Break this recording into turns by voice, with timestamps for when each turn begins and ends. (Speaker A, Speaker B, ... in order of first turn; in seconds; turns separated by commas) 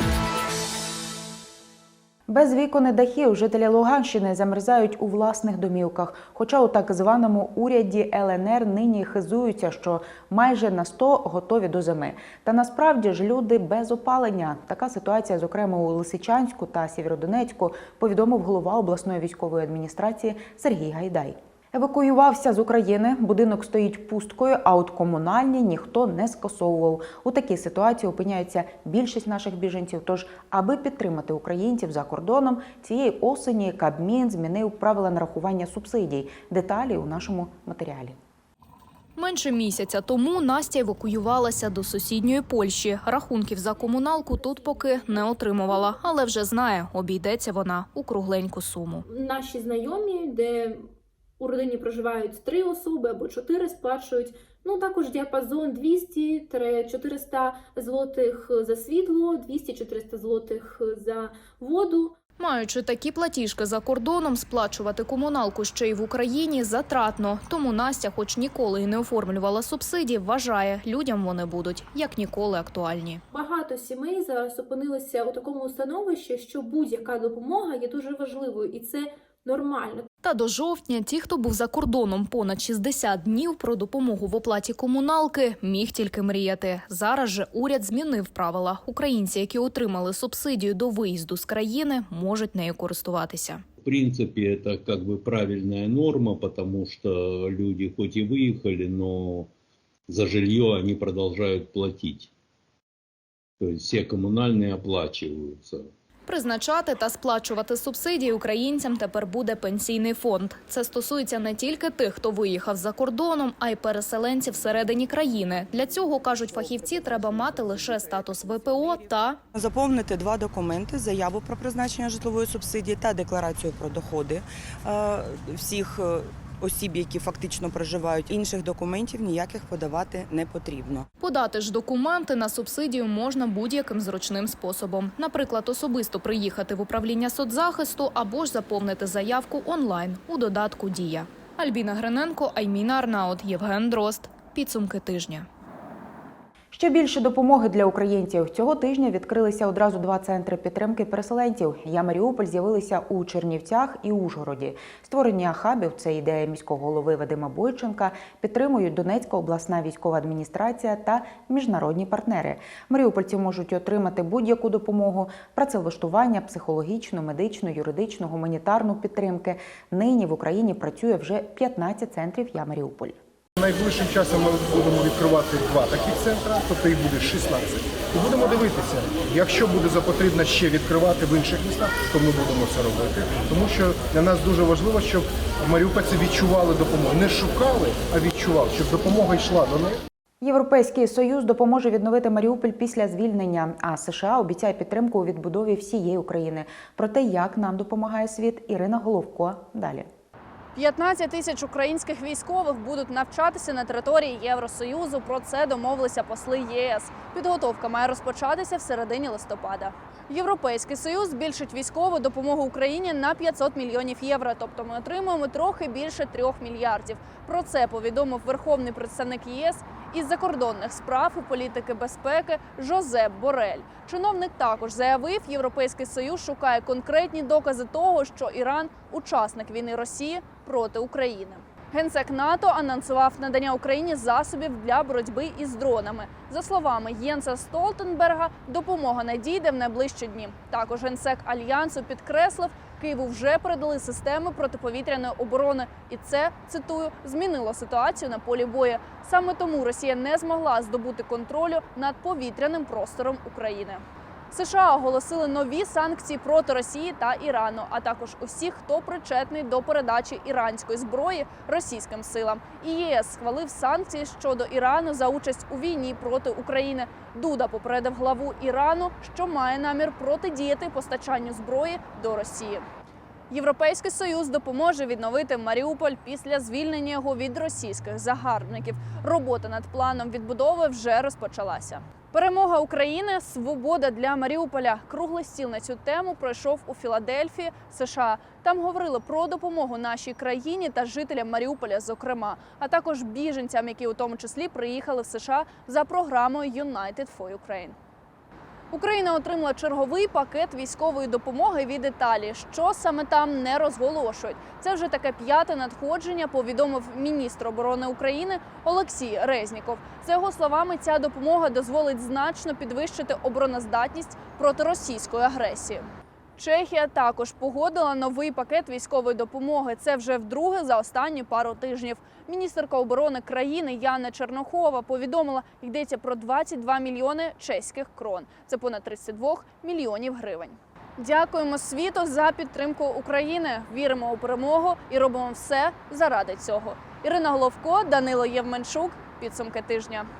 Speaker A: 2.3-38.1, Speaker B: 39.2-49.0, Speaker C: 49.1-50.8, Speaker C: 51.4-62.2, Speaker B: 62.4-73.2, Speaker C: 73.3-80.1, Speaker B: 80.2-93.6, Speaker D: 93.8-99.5, Speaker D: 100.1-102.3, Speaker D: 103.6-105.9, Speaker B: 106.3-119.4, Speaker E: 119.5-131.1, Speaker B: 131.2-145.5, Speaker A: 146.7-173.2, Speaker F: 173.6-190.0, Speaker A: 190.4-200.1, Speaker G: 200.8-272.8, Speaker G: 273.5-297.9, Speaker G: 298.9-316.0, Speaker G: 316.6-340.2